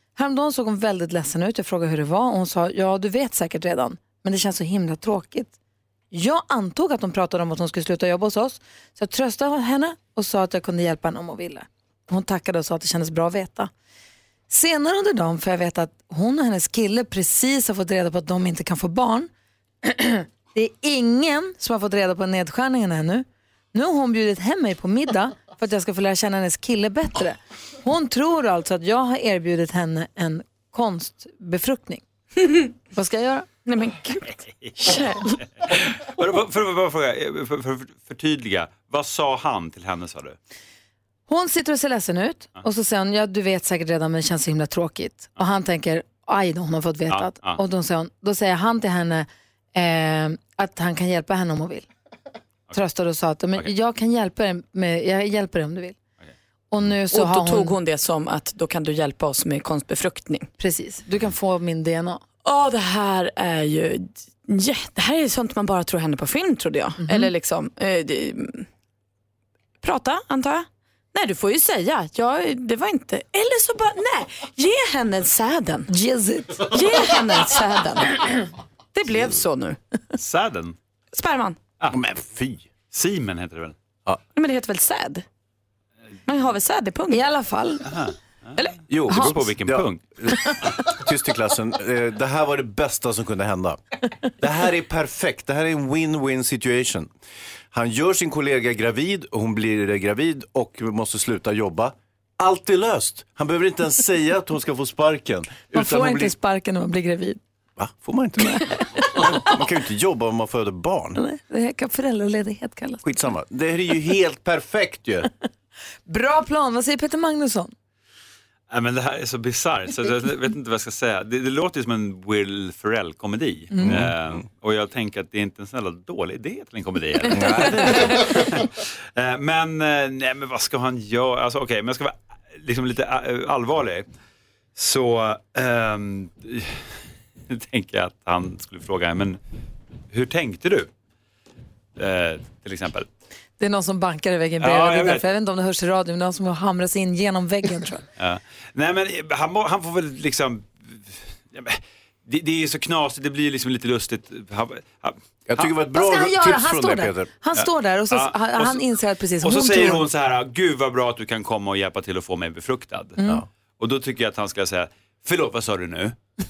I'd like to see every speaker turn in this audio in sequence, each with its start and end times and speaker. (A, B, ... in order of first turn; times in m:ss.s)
0:00.2-0:05.5 A
0:06.1-0:13.7 A
0:14.5-0:19.3 A
0:19.8-0:32.0 A
0:32.9-0:33.5 A
0:33.7-0:34.3 B
0:34.2-0:40.4 C
0:34.8-0:35.3 B
0:41.3-0:51.9 A
0:47.1-0:47.6 C
0:52.7-0:56.0 A
0:56.7-0:57.8 A
0:57.1-1:00.5 B
1:00.6-1:02.2 A
1:02.4-1:08.7 B
1:07.0-1:07.3 A
1:09.8-1:15.9 B
1:15.9-1:16.6 A
1:16.6-1:18.2 B
1:18.9-1:19.8 B
1:20.2-1:20.8 C
1:21.1-1:21.6 B
1:21.9-1:22.7 D
1:22.9-1:23.8 C
1:24.4-1:25.2 B
1:26.3-1:27.2 B
1:27.1-1:27.9 A
1:27.9-1:28.1 C
1:28.9-1:33.8 D
1:29.1-1:30.0 C
1:29.1-1:29.4 A
1:34.4-1:37.1 D
1:37.7-1:46.3 D
1:45.7-1:47.4 A
1:47.8-1:51.2 D
1:48.4-1:49.4 A
1:51.2-1:53.0 A
1:53.0-1:55.3 D
1:56.1-1:57.7 A
1:58.7-2:14.1 C
2:03.7-2:04.1 A
2:03.8-2:04.1 D
2:07.3-2:08.2 D
2:14.8-2:16.8 C
2:17.5-2:19.4 C
2:20.1-2:20.9 C
2:22.0-2:23.1 C
2:23.6-2:28.0 A
2:24.6-2:25.3 C
2:28.2-2:35.7 C
2:35.5-2:37.3 D
2:35.9-2:40.1 A
2:37.6-2:38.9 C
2:39.4-2:43.2 C
2:43.8-2:46.2 C